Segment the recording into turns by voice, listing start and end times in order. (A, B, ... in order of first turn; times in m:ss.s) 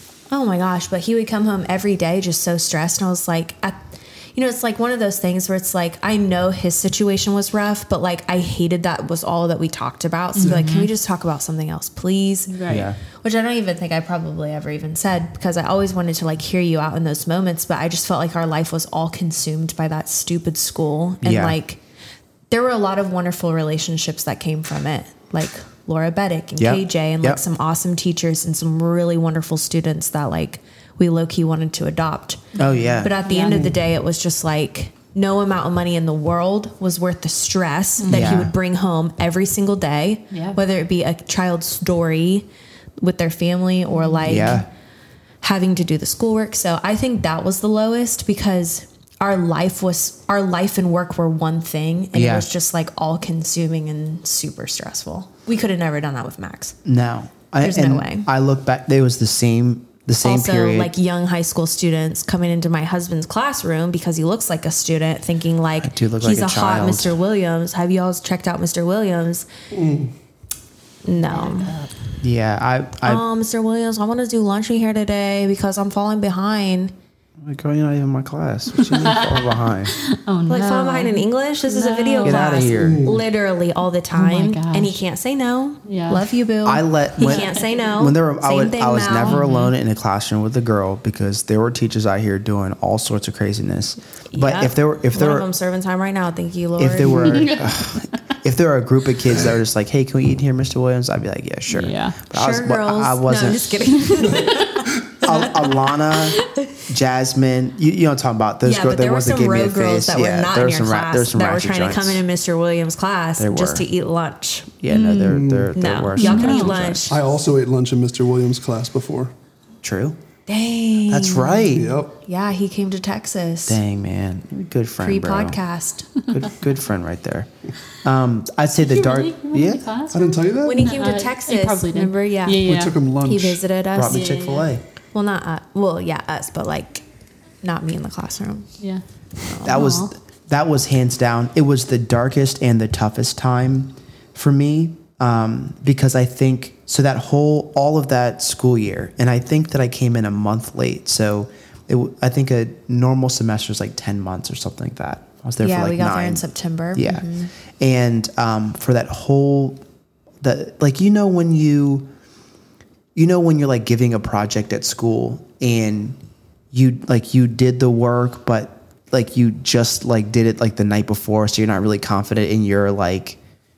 0:00.3-0:12.6 A
0:10.4-0:10.9 B
0:12.5-0:12.9 B
0:12.7-0:13.0 C
0:13.1-0:21.8 A
0:21.2-0:21.6 C
0:22.5-0:42.4 A
0:26.6-0:27.4 C
0:32.6-0:33.2 C
0:32.6-0:33.7 B
0:38.0-0:38.4 B
0:38.1-0:38.5 C
0:40.3-0:40.6 B
0:43.0-0:44.7 A
0:43.9-0:44.6 B
0:44.2-0:44.7 C
0:45.4-0:56.8 A
0:52.1-0:52.5 C
0:56.8-1:00.9 C
0:57.6-0:58.3 A
1:00.2-1:09.5 A
1:05.8-1:07.2 C
1:09.7-1:10.1 D
1:11.0-1:11.7 A
1:11.2-1:12.0 B
1:12.2-1:13.2 C
1:13.0-1:16.9 A
1:17.4-1:19.9 C
1:18.9-1:22.6 B
1:20.5-1:29.4 A
1:22.2-1:23.0 C
1:22.8-1:23.2 D
1:24.1-1:25.0 B
1:25.8-1:26.3 B
1:26.6-1:35.5 C
1:27.2-1:27.7 B
1:29.2-1:29.7 B
1:34.3-1:37.5 A
1:36.8-1:44.0 C
1:37.2-1:38.1 B
1:41.7-1:42.2 B
1:42.3-1:46.8 A
1:45.2-1:52.2 C
1:48.6-1:54.8 A
1:53.4-1:53.8 C
1:54.8-1:57.1 C
1:54.9-1:55.5 B
1:55.2-1:55.7 D
1:55.7-1:57.1 A
1:56.2-1:56.8 B
1:57.1-1:59.3 D
1:59.8-2:00.2 C
2:00.5-2:03.8 A
2:01.1-2:02.0 C
2:01.7-2:02.2 D
2:03.6-2:05.6 C
2:05.0-2:06.1 A
2:06.3-2:07.5 C
2:08.0-2:09.8 C
2:08.8-2:13.0 B
2:10.1-2:10.9 D
2:10.6-2:12.7 A
2:12.6-2:13.6 D
2:13.2-2:14.4 A
2:13.9-2:14.8 C
2:14.1-2:14.7 B
2:15.1-2:17.0 A
2:17.6-2:18.7 A
2:19.4-2:19.8 A
2:19.6-2:39.8 C
2:19.6-2:20.1 B
2:35.6-2:37.5 A
2:40.4-2:42.1 C
2:43.1-2:46.2 C
2:46.7-2:53.4 C